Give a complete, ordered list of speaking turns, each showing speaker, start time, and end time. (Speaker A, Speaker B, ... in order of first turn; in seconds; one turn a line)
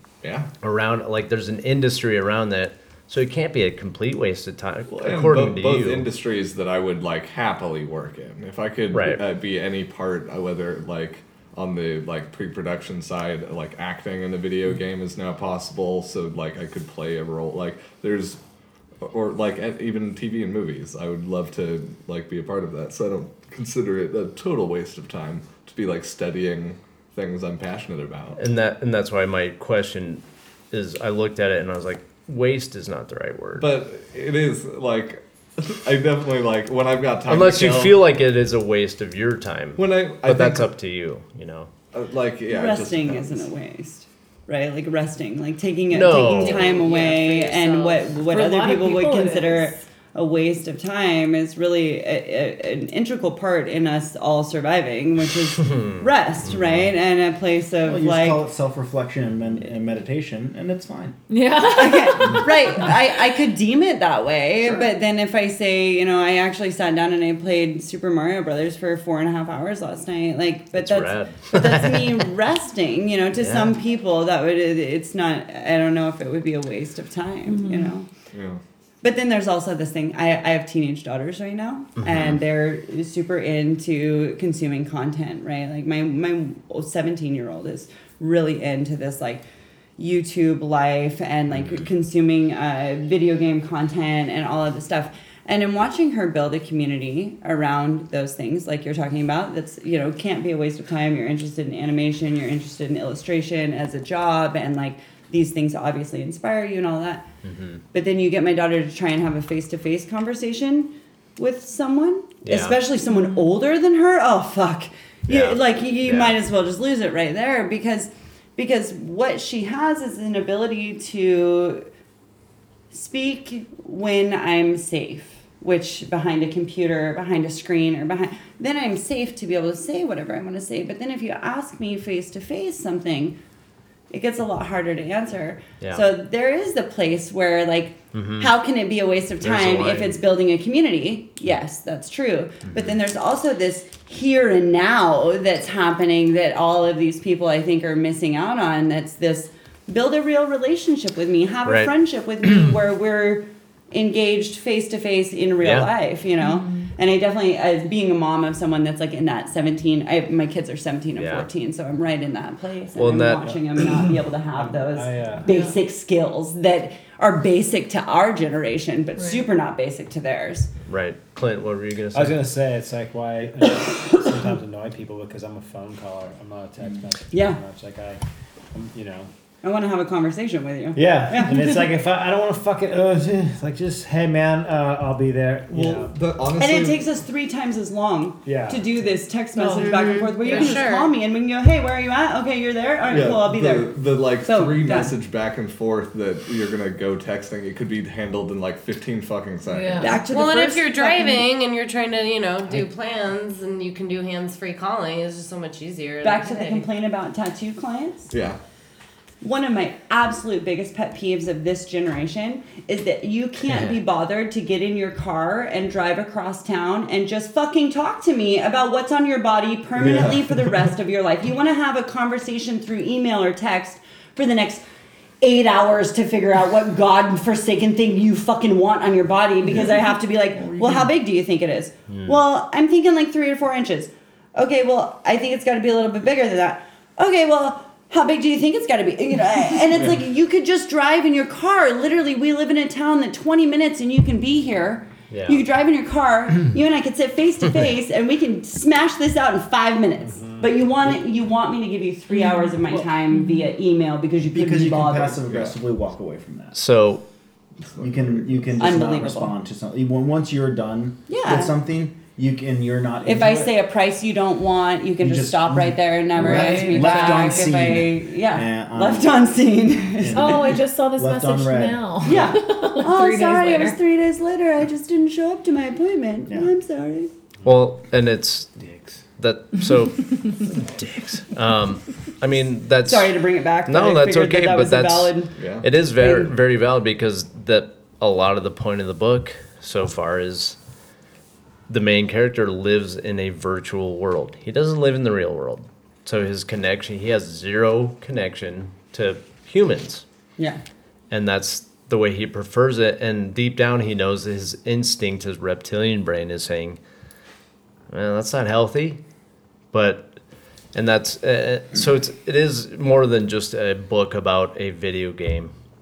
Speaker A: 0.2-0.5
Speaker B: 0.6-6.1
Speaker A: 4.9-18.4
Speaker B: 8.9-9.2
Speaker A: 19.0-28.4
Speaker B: 28.4-33.7
Speaker A: 33.6-38.0
Speaker B: 37.3-41.7
Speaker A: 39.8-40.7
Speaker A: 41.9-43.5
Speaker C: 42.5-58.4
Speaker B: 45.9-46.7
Speaker D: 46.4-48.2
Speaker E: 48.2-49.8
Speaker B: 56.5-56.9
Speaker F: 57.8-61.2
Speaker E: 61.3-63.2
Speaker C: 61.8-78.1
Speaker B: 70.7-72.2
Speaker B: 73.3-73.7
Speaker E: 77.5-78.0
Speaker A: 78.3-78.6
Speaker C: 79.0-89.4
Speaker B: 82.0-82.4
Speaker C: 90.0-107.3
Speaker B: 107.5-107.8
Speaker C: 107.9-121.9
Speaker B: 112.5-112.8
Speaker B: 115.3-116.4
Speaker C: 122.9-133.4
Speaker C: 134.1-170.7
Speaker B: 138.1-138.5
Speaker B: 139.4-140.2
Speaker B: 151.7-151.9
Speaker B: 155.6-155.9
Speaker E: 156.4-156.9
Speaker B: 161.2-161.5
Speaker B: 162.9-163.4
Speaker G: 164.6-165.5
Speaker E: 165.4-165.8
Speaker E: 169.2-169.4
Speaker B: 170.9-172.4
Speaker G: 172.1-178.2
Speaker C: 177.3-177.6
Speaker G: 178.7-179.3
Speaker C: 179.6-181.6
Speaker G: 180.9-186.1
Speaker A: 185.7-187.1
Speaker C: 186.6-195.1
Speaker G: 188.4-189.0
Speaker E: 189.6-190.8
Speaker D: 189.8-191.1
Speaker A: 193.1-200.2
Speaker E: 199.7-200.2
Speaker C: 200.0-201.4
Speaker D: 200.2-206.9
Speaker C: 206.2-208.3
Speaker A: 208.3-208.6
Speaker C: 209.4-224.8
Speaker F: 220.0-220.3
Speaker C: 225.4-255.4
Speaker F: 230.6-231.1
Speaker B: 232.1-232.4
Speaker B: 245.3-245.6
Speaker G: 250.3-250.7
Speaker E: 252.3-253.7
Speaker F: 254.5-256.8
Speaker A: 255.5-255.7
Speaker B: 256.7-257.2
Speaker A: 257.9-258.6
Speaker F: 258.0-263.7
Speaker C: 258.8-259.5
Speaker C: 261.3-261.7
Speaker C: 263.2-270.7
Speaker F: 265.2-269.4
Speaker E: 266.4-267.8
Speaker D: 266.5-267.1
Speaker F: 270.2-272.6
Speaker E: 270.3-274.0
Speaker C: 272.2-277.3
Speaker B: 277.6-290.8
Speaker G: 278.8-279.1
Speaker C: 283.1-286.5
Speaker A: 285.6-285.9
Speaker B: 291.9-300.2
Speaker B: 301.3-307.0
Speaker B: 308.1-309.2
Speaker B: 309.9-310.4
Speaker B: 310.9-315.7